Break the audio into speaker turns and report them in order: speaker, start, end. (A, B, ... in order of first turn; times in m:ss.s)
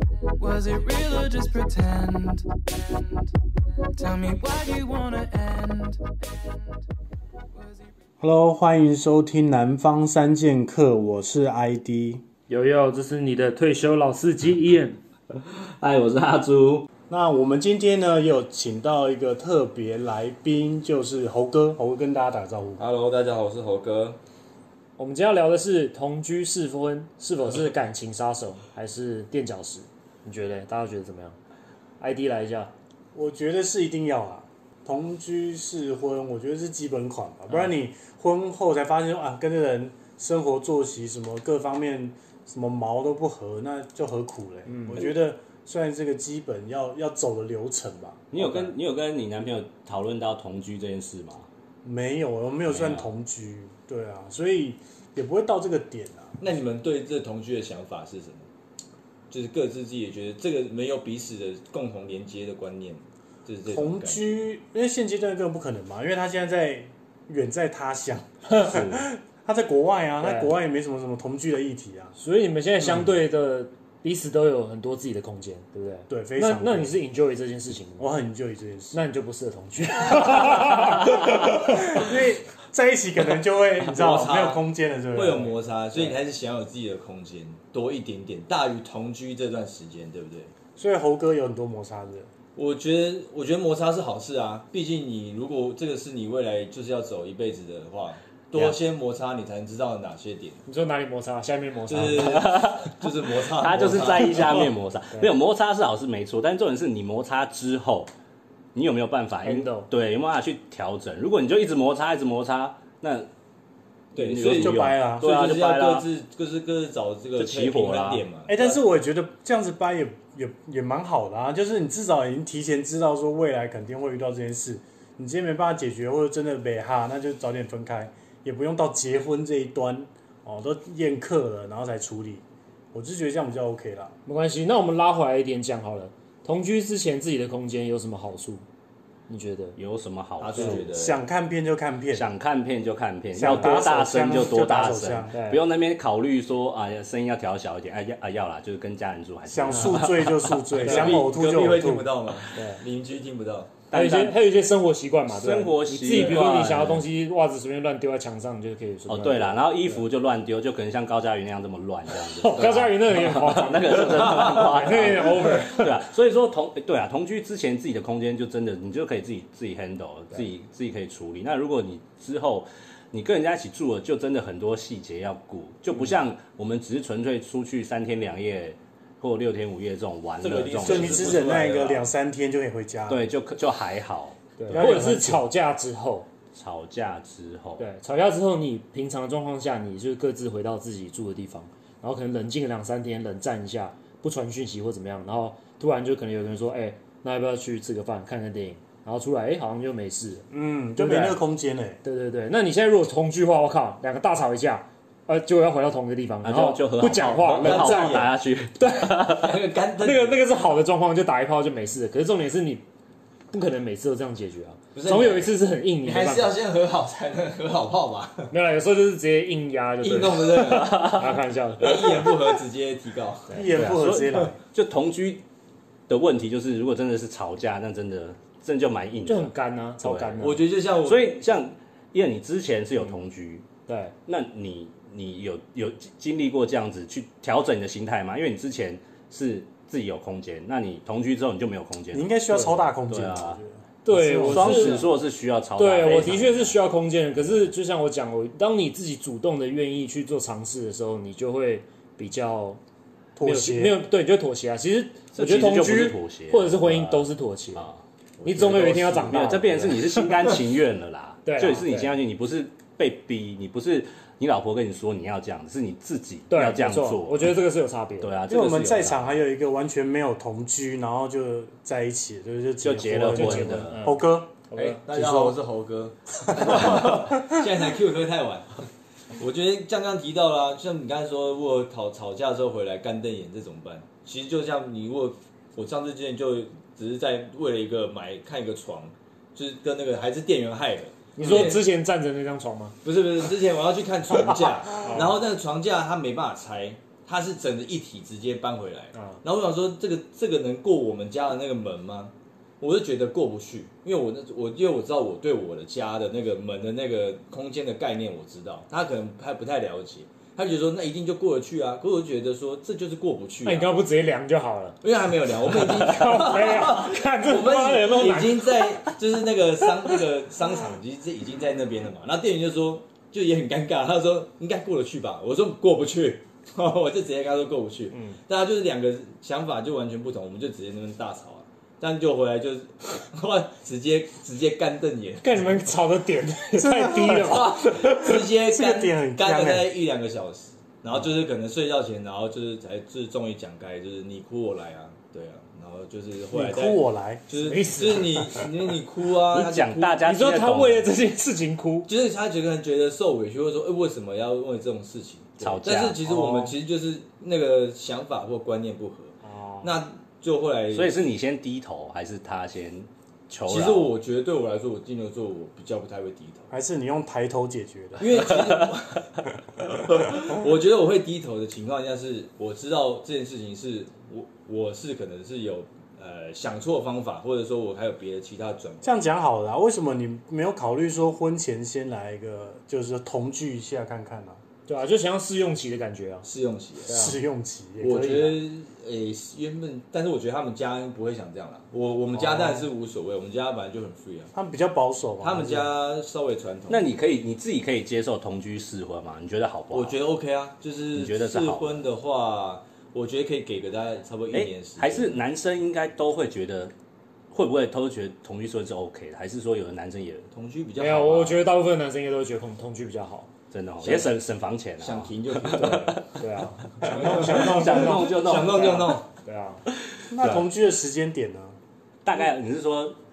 0:00.4-0:03.3 A
0:04.0-0:06.8 A
0:07.5-0:07.9 A
0:08.2-0:12.2 B
0:12.5-0:15.0 C
0:15.3-0:16.9 D
0:17.1-0:22.8 B
0:22.8-0:24.2 E
0:25.0-0:31.4 C
0:32.0-0:32.7 C
0:33.1-0:48.7 B
0:44.7-0:45.1 C
0:48.3-0:51.5 D
0:51.8-0:56.4 B
0:52.7-0:53.1 D
0:56.4-0:58.5 E
0:59.3-1:04.4 E
1:03.7-1:12.2 B
1:08.5-1:08.8 C
1:08.7-1:09.0 D
1:10.2-1:10.6 C
1:12.2-1:18.1 C
1:16.1-1:17.0 B
1:18.0-1:19.0 B
1:18.9-1:21.5 C
1:20.2-1:26.1 B
1:23.9-1:30.5 E
1:30.8-1:32.3 B
1:32.6-1:40.6 E
1:40.7-1:42.4 C
1:41.9-1:44.7 E
1:42.0-1:48.1 D
1:48.8-1:53.3 D
1:49.4-1:49.9 C
1:54.1-1:58.8 E
1:54.2-1:56.0 D
1:54.4-1:55.3 B
1:57.4-1:58.2 D
1:58.5-2:14.2 B
2:14.2-2:18.6 C
2:19.3-2:19.8 C
2:19.8-2:20.9 D
2:20.4-2:21.2 E
2:20.6-2:22.3 B
2:22.1-2:30.6 D
2:23.3-2:25.3 B
2:25.3-2:25.6 C
2:29.5-2:32.1 B
2:30.8-2:31.2 C
2:30.8-2:33.8 E
2:32.5-2:32.8 C
2:33.9-2:34.4 D
2:33.9-2:40.0 C
2:35.3-2:37.0 D
2:36.1-2:36.4 E
2:39.1-3:01.5 D
2:42.2-2:45.9 C
2:44.2-2:44.8 E
3:00.4-3:02.1 E
3:00.8-3:03.3 B
3:03.1-3:04.4 D
3:04.6-3:06.3 C
3:04.7-3:05.5 B
3:06.5-3:07.8 D
3:07.8-3:20.5 C
3:20.5-3:22.0 B
3:21.0-3:21.4 C
3:22.0-3:29.3 C
3:26.4-3:29.5 D
3:27.6-3:28.3 E
3:29.4-3:30.4 E
3:30.0-3:32.8 C
3:33.5-3:36.6 C
3:34.9-3:35.5 E
3:36.0-3:38.5 E
3:38.5-3:42.3 C
3:40.0-3:44.4 E
3:40.9-3:41.2 D
3:43.5-3:44.6 B
3:43.7-3:45.4 D
3:46.1-3:50.4 D
3:49.2-3:50.6 C
3:50.4-3:51.4 E
3:51.0-3:53.6 D
3:53.9-3:54.2 C
3:54.2-4:02.6 D
4:02.1-4:05.1 B
4:03.1-4:03.6 D
4:04.0-4:05.1 C
4:04.4-4:06.8 D
4:05.8-4:12.8 C
4:07.4-4:07.7 D
4:13.4-4:14.0 B
4:13.4-4:17.9 C
4:15.3-4:27.6 D
4:15.5-4:16.2 B
4:18.4-4:20.3 C
4:19.1-4:19.9 B
4:21.4-4:22.1 C
4:26.5-4:28.4 C
4:28.2-4:29.4 D
4:28.5-4:34.5 B
4:32.8-4:34.0 D
4:33.2-4:35.0 C
4:34.7-4:51.8 E
4:35.1-4:35.6 B
4:51.4-4:53.0 C
4:51.4-4:51.8 B
4:53.0-5:13.9 E
4:54.9-4:55.3 C
5:13.6-5:15.0 C
5:15.0-5:35.6 E
5:15.6-5:19.1 C
5:28.1-5:28.4 C
5:35.4-5:38.0 C
5:36.8-5:39.9 B
5:37.3-5:50.2 E
5:46.5-5:47.4 B
5:47.6-5:48.7 C
5:49.5-5:51.1 D
5:50.2-5:52.1 C
5:52.1-6:01.2 E
5:55.6-5:56.2 D
5:56.2-5:56.7 B
5:59.4-6:00.0 C
6:00.9-6:04.1 D
6:03.7-6:06.7 E
6:06.7-6:08.3 B
6:08.2-6:19.2 E
6:08.4-6:08.9 D
6:19.0-6:24.6 B
6:24.9-6:26.4 C
6:26.4-6:27.2 E
6:27.0-6:27.4 C
6:27.1-6:28.6 B
6:28.0-6:34.5 E
6:34.5-6:35.9 B
6:35.4-6:37.1 E
6:36.9-6:40.2 D
6:39.9-6:45.4 E
6:41.1-6:42.0 D
6:44.5-6:46.9 D
6:47.5-6:50.5 D
6:50.5-6:51.6 E
6:51.0-6:53.5 C
6:53.7-6:56.2 D
6:54.0-6:54.3 E
6:55.0-6:56.2 E
6:55.7-6:59.8 C
6:57.0-6:59.3 E
6:57.0-6:59.2 D
6:57.1-6:58.3 B
7:00.3-7:01.8 B
7:00.4-7:00.6 D
7:02.2-7:03.2 D